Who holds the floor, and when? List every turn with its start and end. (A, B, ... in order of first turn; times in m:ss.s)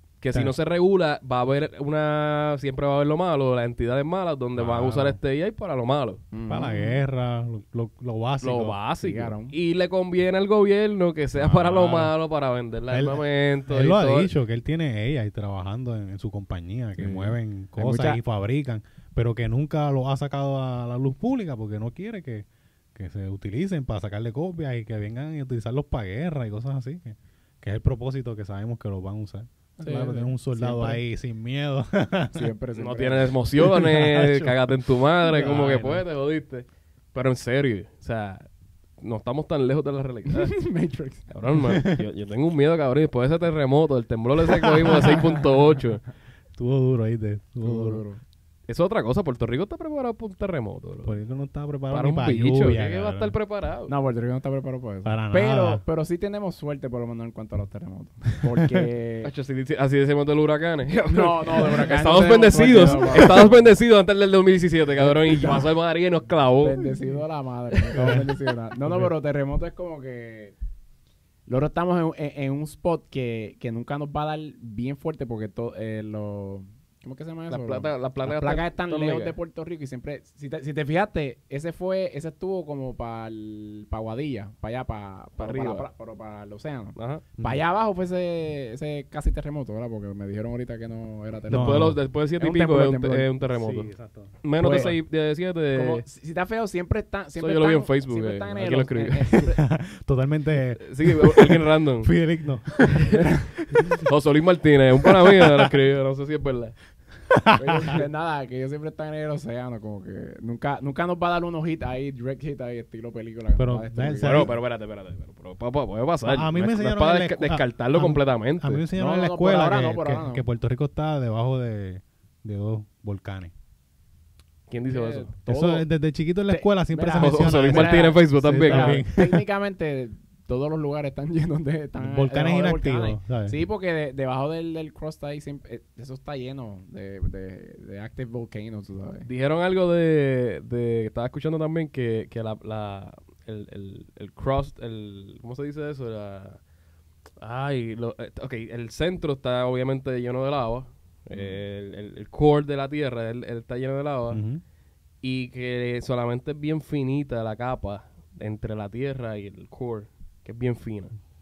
0:00.2-0:06.2 A
0:04.6-0:05.2 B
0:06.3-0:07.0 C
0:06.5-0:08.8 B
0:08.4-0:14.3 A
0:09.0-0:09.6 C
0:11.4-0:12.1 B
0:12.9-0:32.5 B
0:17.0-0:18.2 C
0:29.8-0:31.0 C
0:32.3-0:33.5 C
0:32.8-0:38.5 A
0:33.8-0:34.7 B
0:35.2-0:36.0 B
0:39.0-0:40.6 A
0:40.3-0:41.3 C
0:41.3-0:46.0 A
0:41.7-0:42.0 B
0:44.6-0:45.0 B
0:46.6-0:48.0 B
0:47.6-0:48.2 C
0:48.7-0:51.2 A
0:51.0-0:53.3 B
0:51.9-0:53.9 A
0:53.9-0:59.3 C
0:55.0-0:55.8 B
0:59.2-1:06.9 A
1:01.1-1:03.7 C
1:02.7-1:03.4 B
1:05.0-1:05.7 C
1:06.6-1:10.6 C
1:07.8-1:08.2 A
1:07.9-1:08.3 B
1:11.5-1:33.3 C
1:17.5-1:19.4 A
1:25.4-1:25.9 A
1:27.0-1:27.2 A
1:31.5-1:32.0 B
1:31.5-1:33.9 A
1:33.6-1:34.9 B
1:34.4-1:36.0 A
1:34.6-1:35.0 C
1:35.7-1:39.6 C
1:37.4-1:39.5 A
1:39.6-1:44.1 B
1:40.8-1:42.1 A
1:42.9-1:46.7 A
1:45.0-1:45.7 B
1:47.3-1:48.0 B
1:47.5-1:54.5 C
1:53.6-1:54.6 B
1:54.2-1:58.8 A
1:56.2-2:03.5 B
1:59.0-2:00.4 C
2:04.7-2:05.3 A
2:04.9-2:05.8 C
2:05.5-2:09.4 B
2:06.5-2:19.3 C
2:07.2-2:09.0 A
2:12.0-2:13.6 B
2:19.3-2:26.6 A
2:27.4-2:34.4 A
2:34.3-2:34.6 B
2:35.2-2:41.1 A